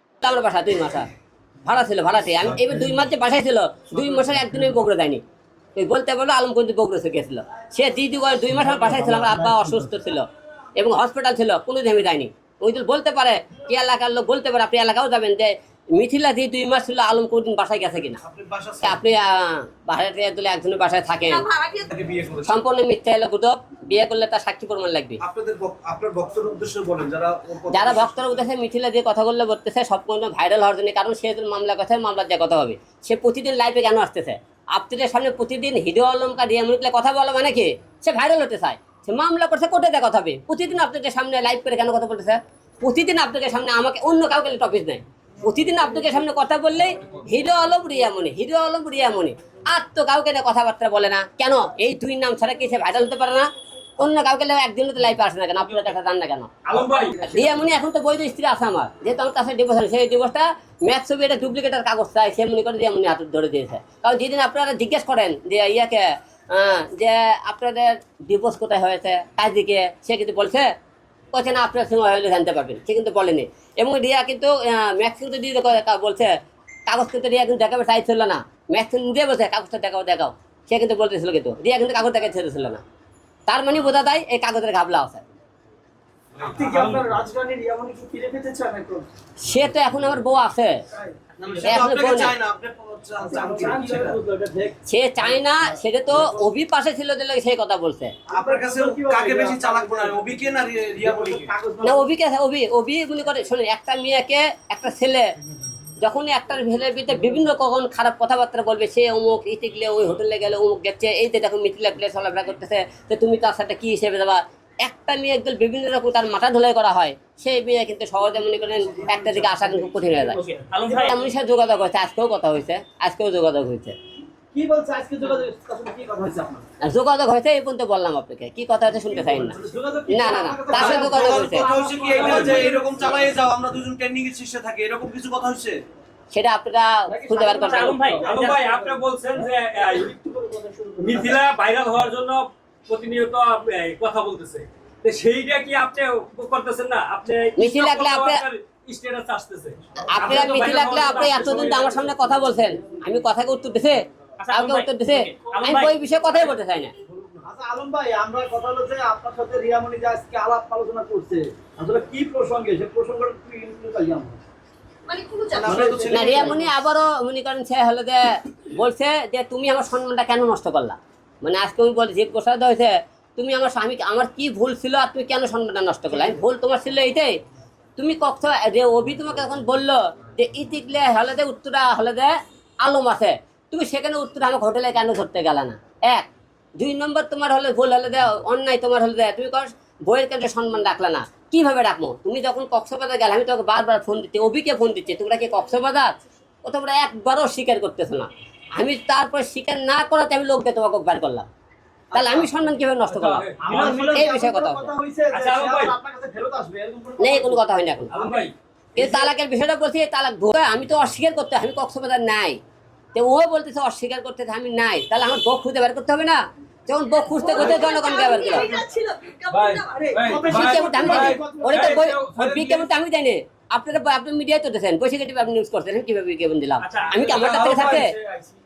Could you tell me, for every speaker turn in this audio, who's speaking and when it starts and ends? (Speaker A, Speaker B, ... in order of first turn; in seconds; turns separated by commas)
Speaker A: 0.2-1.1, Speaker A: 1.6-5.2, Speaker A: 5.7-10.2, Speaker A: 10.8-18.2, Speaker B: 18.2-19.0, Speaker A: 18.8-21.5, Speaker C: 21.3-21.9, Speaker B: 21.9-22.6, Speaker A: 22.4-25.2, Speaker B: 25.2-28.3, Speaker A: 27.7-53.5, Speaker A: 54.0-56.5, Speaker D: 56.6-57.2, Speaker A: 57.2-70.7, Speaker A: 71.3-82.8, Speaker A: 83.5-85.2, Speaker D: 86.3-87.0, Speaker E: 86.4-89.1, Speaker A: 89.4-90.8, Speaker B: 91.4-94.2, Speaker A: 91.6-92.3, Speaker E: 93.2-94.8, Speaker A: 94.9-98.1, Speaker B: 98.3-101.5, Speaker E: 98.3-100.3, Speaker E: 101.0-102.1, Speaker A: 101.8-105.3, Speaker A: 106.0-123.9, Speaker E: 119.0-120.1, Speaker D: 120.4-121.1, Speaker E: 120.8-121.2, Speaker E: 124.5-126.6, Speaker A: 126.8-129.6, Speaker E: 129.1-133.1, Speaker A: 130.1-131.7, Speaker B: 130.7-135.8, Speaker D: 132.0-132.7, Speaker A: 136.3-138.2, Speaker E: 137.1-139.0, Speaker D: 137.5-140.1, Speaker E: 139.7-141.4, Speaker D: 141.0-152.1, Speaker A: 147.6-148.4, Speaker A: 150.1-156.9, Speaker E: 150.2-150.7, Speaker D: 154.4-156.5, Speaker E: 157.4-164.4, Speaker C: 165.1-165.7, Speaker B: 165.5-166.6, Speaker E: 165.6-166.7, Speaker A: 166.1-177.3, Speaker A: 178.0-201.5, Speaker E: 202.1-202.5, Speaker A: 202.1-204.9, Speaker D: 203.1-204.2, Speaker E: 203.6-209.3, Speaker D: 205.3-205.9, Speaker A: 207.2-208.1, Speaker D: 208.1-208.5, Speaker A: 208.9-212.6, Speaker A: 213.1-218.8, Speaker C: 217.3-220.4, Speaker D: 217.6-217.9, Speaker D: 219.5-222.8, Speaker E: 220.0-222.1, Speaker A: 220.4-228.2, Speaker D: 226.8-228.1, Speaker B: 227.3-228.4